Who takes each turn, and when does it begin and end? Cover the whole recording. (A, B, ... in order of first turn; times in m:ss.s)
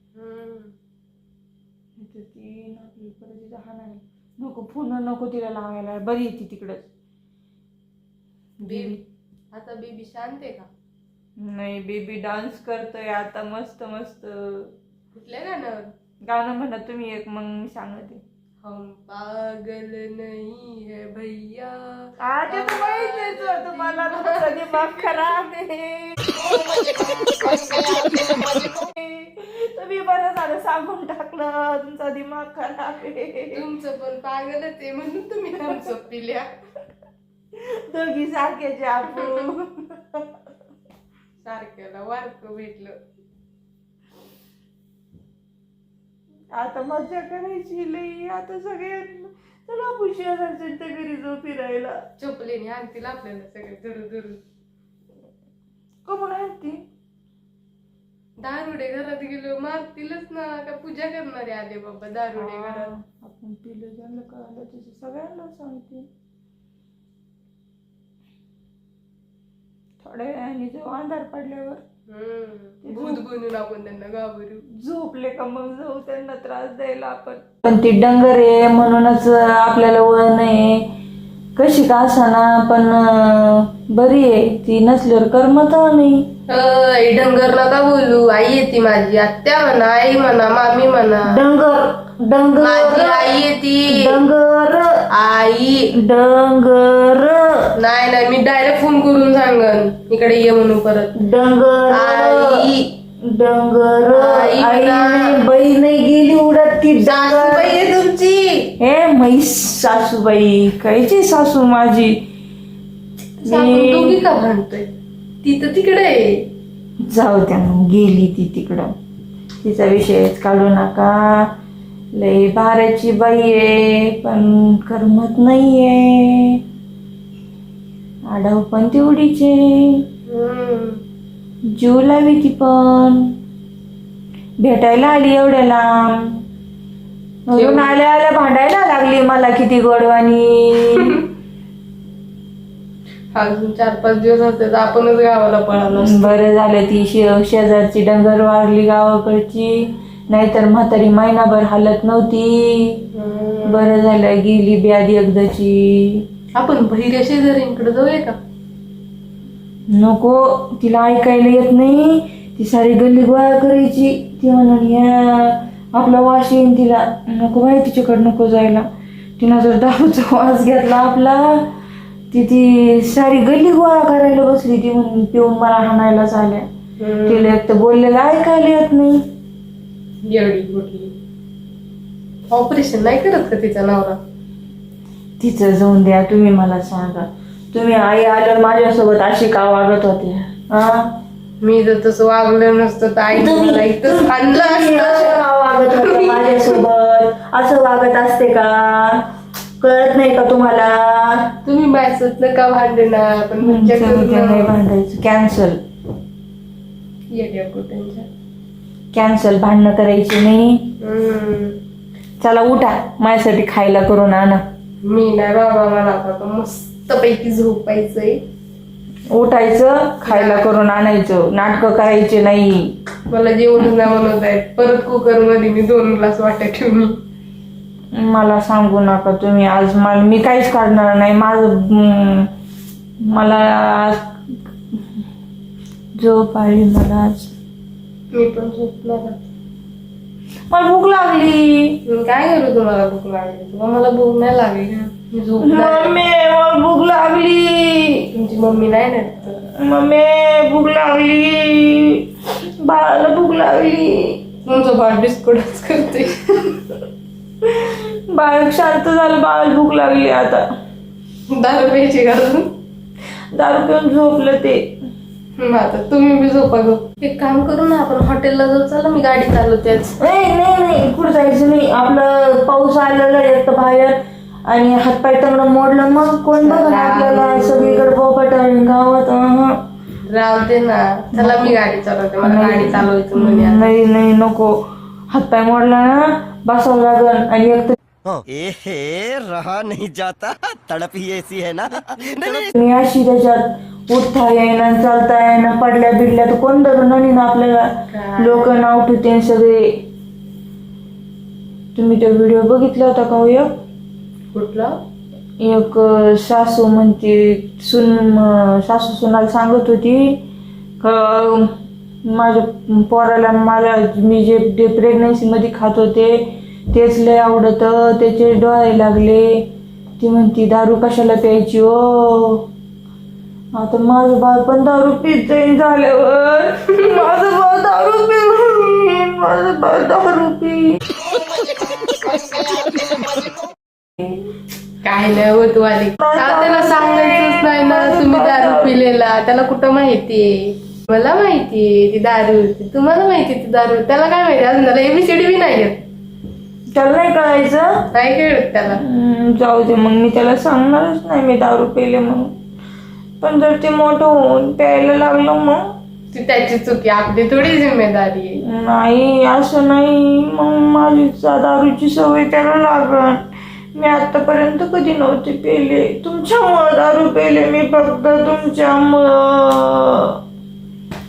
0:00.2-0:00.7 A
0:02.0-0:06.8 B
0:08.6-0:09.0 B
0:08.6-0:09.0 A
0:09.5-0:10.7 A
0:11.4-0:14.7 B
0:15.1-0:15.9 A
0:16.3-0:18.2 B
0:18.6-0:25.5 A
0:22.2-0:26.4 B
0:27.0-0:33.6 B
0:33.5-0:36.5 A
0:35.6-0:35.9 B
0:37.5-0:40.3 B
0:39.1-0:39.5 A
0:41.4-0:43.0 A
0:46.5-0:52.0 B
0:52.2-0:54.4 A
0:56.1-0:56.8 B
0:58.4-1:02.9 A
1:02.4-1:06.1 B
1:10.0-1:11.8 B
1:12.1-1:14.6 A
1:12.8-1:13.2 B
1:14.8-1:20.8 B
1:21.6-1:26.3 B
1:26.5-1:31.2 A
1:31.3-1:33.3 B
1:32.6-1:34.2 A
1:33.9-1:35.0 B
1:35.1-1:35.9 A
1:35.9-1:37.7 B
1:37.8-1:41.2 A
1:41.2-1:47.8 B
1:41.9-1:42.9 A
1:44.1-1:45.4 A
1:47.0-1:48.7 A
1:48.8-1:52.2 B
1:53.4-1:54.9 A
1:53.5-1:54.2 B
1:55.4-1:56.4 A
1:57.1-1:58.9 B
1:59.6-2:01.4 B
2:02.2-2:06.6 B
2:08.3-2:10.0 B
2:10.3-2:11.0 A
2:11.7-2:13.3 B
2:14.6-2:16.4 B
2:17.5-2:21.2 B
2:17.5-2:17.9 A
2:20.9-2:21.2 A
2:23.3-2:26.4 A
2:25.9-2:29.8 B
2:30.3-2:33.0 B
2:33.1-2:33.9 A
2:33.7-2:36.2 B
2:36.6-2:38.4 A
2:39.9-2:48.9 B
2:49.4-2:51.6 B
2:52.3-2:56.7 B
2:57.0-2:57.6 A
2:57.3-2:59.2 B
3:00.2-3:01.1 A
3:02.5-3:04.2 A
3:05.4-3:11.1 B
3:11.6-3:16.8 A
3:13.3-3:19.2 B
3:19.8-3:21.5 B
3:21.6-3:24.8 A
3:23.6-3:25.8 B
3:27.3-3:28.3 A
3:29.1-3:30.9 B
3:31.0-3:31.8 A
3:32.4-3:34.6 B
3:35.0-3:38.4 A
3:39.3-3:42.9 B
3:40.2-3:40.7 A
3:43.3-3:47.2 A
3:48.1-3:52.5 B
3:53.2-3:54.4 B
3:56.2-3:57.5 B
3:58.3-3:59.4 A
4:00.7-4:02.0 B
4:02.1-4:06.2 A
4:05.6-4:08.3 B
4:08.3-4:09.6 A
4:09.7-4:14.4 B
4:14.6-4:16.8 A
4:17.6-4:20.6 B
4:21.5-4:22.7 A
4:23.5-4:24.8 B
4:25.6-4:30.1 A
4:30.2-4:39.8 B
4:36.5-4:38.2 A
4:40.3-4:43.9 A
4:41.4-4:41.8 B
4:42.4-4:44.7 B
4:45.3-4:48.0 B
4:48.3-4:52.7 C
4:52.7-4:59.9 B
4:58.1-4:58.8 A
5:02.0-5:03.7 B
5:04.5-5:05.0 A
5:05.6-5:10.4 B
5:11.0-5:11.7 B
5:12.3-5:16.4 B
5:16.9-5:19.6 B
5:20.2-5:22.6 B
5:23.7-5:31.0 B
5:35.0-5:40.5 A
5:36.2-5:39.0 B
5:41.1-5:46.0 A
5:46.9-5:47.9 B
5:48.1-5:49.0 A
5:48.9-5:52.5 B
5:53.4-5:55.8 B
5:56.3-5:58.6 A
5:58.6-6:03.4 B
6:04.0-6:10.4 B